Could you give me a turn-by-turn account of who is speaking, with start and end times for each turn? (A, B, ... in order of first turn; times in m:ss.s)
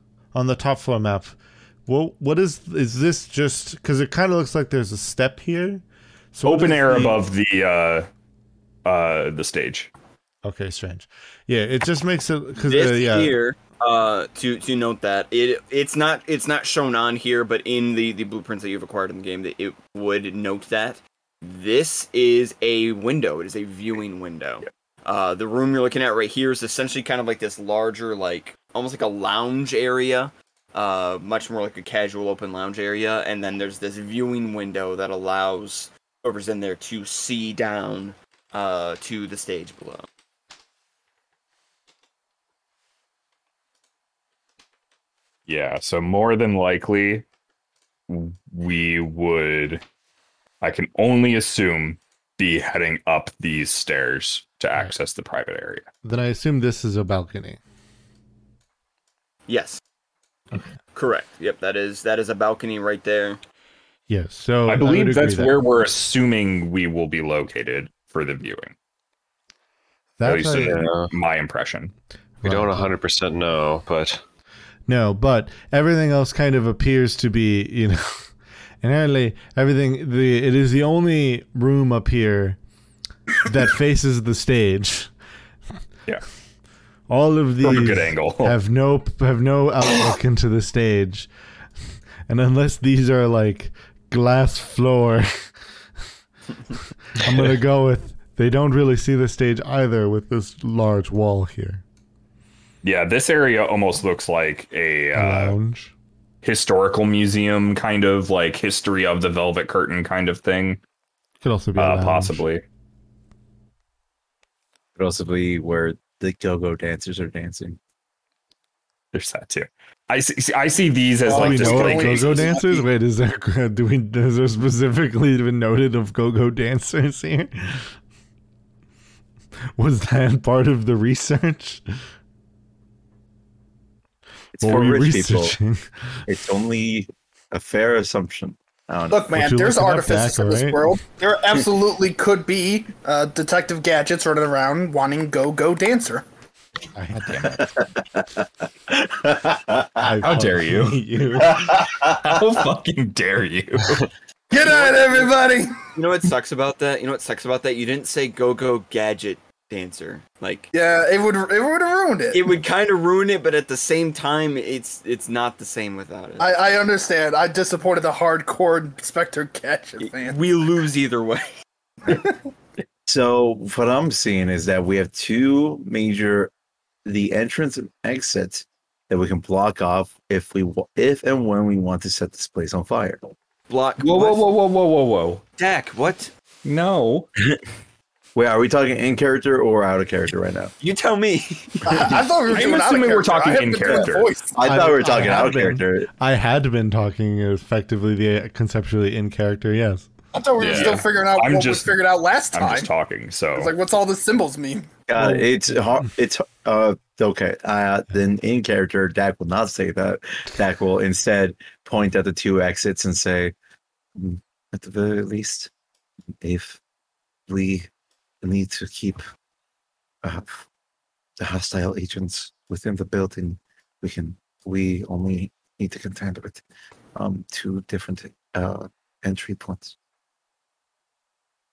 0:00.3-0:07.2 A
0:06.4-0:08.1 B
0:08.8-0:09.9 B
0:10.4-0:13.4 A
0:12.6-0:40.1 C
0:45.5-0:47.3 B
0:48.1-0:49.8 B
0:50.6-0:55.9 B
0:56.0-0:57.6 A
0:59.5-0:59.8 C
1:00.9-1:03.4 C
1:04.1-1:05.6 A
1:04.7-1:08.8 B
1:10.2-1:10.8 A
1:10.2-1:11.9 B
1:10.4-1:11.1 D
1:12.4-1:12.9 A
1:12.4-1:14.2 D
1:14.9-1:22.6 A
1:23.4-1:25.1 A
1:27.1-1:31.3 A
1:27.6-1:28.6 B
1:32.3-1:35.5 A
1:36.7-1:41.8 A
1:42.8-1:45.6 B
1:45.1-1:45.9 A
1:46.4-1:50.8 B
1:51.4-1:52.4 A
1:51.8-1:52.6 B
1:55.0-1:57.8 E
1:59.1-2:02.5 B
2:01.2-2:02.8 F
2:01.3-2:07.9 A
2:09.8-2:11.9 A
2:14.6-2:15.6 E
2:14.6-2:16.3 A
2:16.3-2:19.3 E
2:19.1-2:26.2 F
2:19.3-2:21.0 A
2:27.0-2:27.6 A
2:27.4-2:28.3 E
2:28.9-2:30.1 E
2:30.0-2:31.7 A
2:30.2-2:34.1 B
2:31.5-2:32.4 E
2:34.5-2:35.8 F
2:34.6-2:35.3 C
2:35.9-2:40.7 C
2:40.7-2:42.5 F
2:42.3-2:46.7 C
2:46.4-2:50.4 F
2:50.0-2:51.5 C
2:52.1-2:52.4 F
2:53.1-2:56.5 E
2:57.1-3:03.3 E
3:03.7-3:04.5 C
3:04.0-3:05.4 B
3:05.6-3:06.3 C
3:06.6-3:07.3 B
3:08.4-3:10.7 E
3:10.8-3:11.9 C
3:11.9-3:14.6 F
3:12.5-3:14.4 B
3:14.5-3:16.1 E
3:14.6-3:20.1 A
3:20.3-3:22.9 F
3:20.6-3:21.0 D
3:20.6-3:22.0 B
3:22.5-3:23.7 B
3:23.5-3:24.9 F
3:25.1-3:33.5 E
3:25.2-3:25.7 A
3:34.2-3:35.7 E
3:36.4-3:36.8 E
3:37.5-3:37.9 E
3:38.4-3:39.2 E
3:40.2-3:40.7 E
3:41.4-3:46.6 E
3:47.2-3:50.0 E